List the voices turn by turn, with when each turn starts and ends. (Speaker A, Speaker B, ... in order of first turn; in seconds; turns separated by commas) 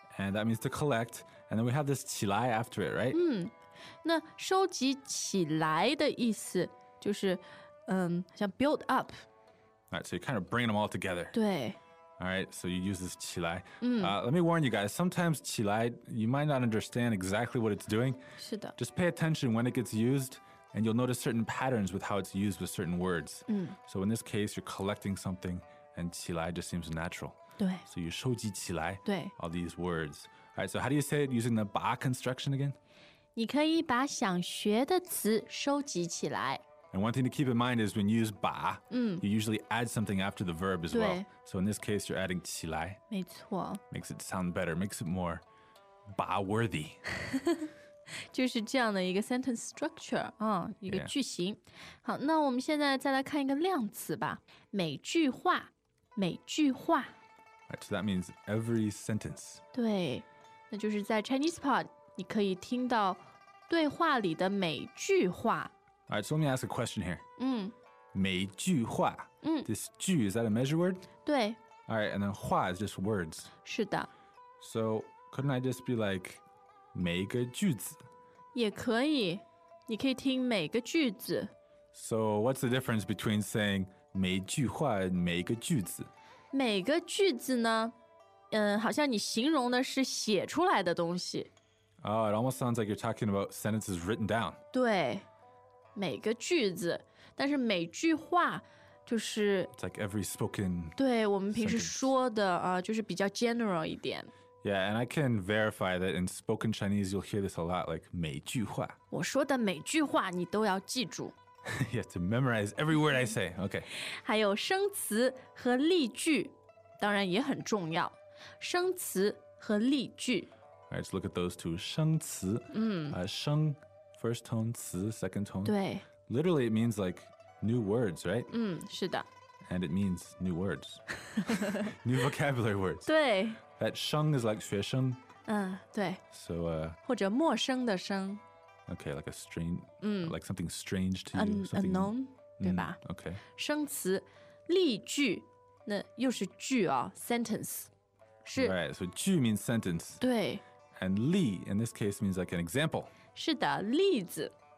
Speaker A: 0.1-3.2, Speaker B: 3.1-9.2, Speaker A: 9.9-11.3, Speaker B: 11.3-11.8, Speaker A: 12.2-18.2, Speaker B: 13.8-14.1, Speaker B: 18.4-18.7, Speaker A: 18.8-32.8, Speaker B: 23.5-23.8, Speaker B: 27.6-27.8, Speaker B: 29.0-29.3, Speaker B: 33.4-36.6, Speaker A: 36.9-43.0, Speaker B: 38.9-39.2, Speaker B: 40.9-41.3, Speaker B: 43.1-43.8, Speaker A: 43.9-45.4, Speaker A: 46.1-47.0, Speaker B: 48.3-57.1, Speaker A: 50.9-51.1, Speaker A: 57.7-59.6, Speaker B: 59.7-65.7, Speaker A: 66.1-67.2, Speaker B: 67.4-67.7, Speaker A: 68.1-71.1, Speaker B: 69.4-69.7, Speaker B: 71.2-71.6, Speaker A: 71.9-73.5, Speaker B: 73.6-74.1, Speaker A: 74.6-76.4, Speaker A: 76.9-78.0, Speaker B: 78.5-81.5, Speaker A: 81.9-86.1, Speaker B: 86.5-87.9, Speaker B: 88.5-91.5, Speaker A: 92.0-94.6, Speaker B: 94.7-95.2, Speaker B: 95.9-99.7, Speaker A: 99.7-101.0, Speaker B: 101.0-104.3, Speaker A: 101.5-102.0, Speaker A: 104.6-109.0, Speaker B: 109.1-111.3, Speaker A: 111.7-113.9, Speaker B: 113.9-120.5, Speaker A: 120.9-128.5, Speaker B: 122.7-123.2, Speaker B: 125.6-126.0, Speaker B: 128.5-129.3, Speaker A: 129.6-133.1, Speaker B: 133.1-133.6, Speaker A: 133.8-135.2, Speaker B: 135.4-136.2, Speaker A: 136.3-137.0, Speaker B: 137.0-138.4, Speaker A: 138.9-143.4, Speaker B: 140.0-140.3, Speaker B: 141.3-143.0, Speaker B: 143.5-147.9, Speaker B: 148.4-148.8, Speaker A: 148.5-150.2, Speaker B: 150.2-150.6, Speaker A: 150.9-153.1, Speaker B: 153.3-154.5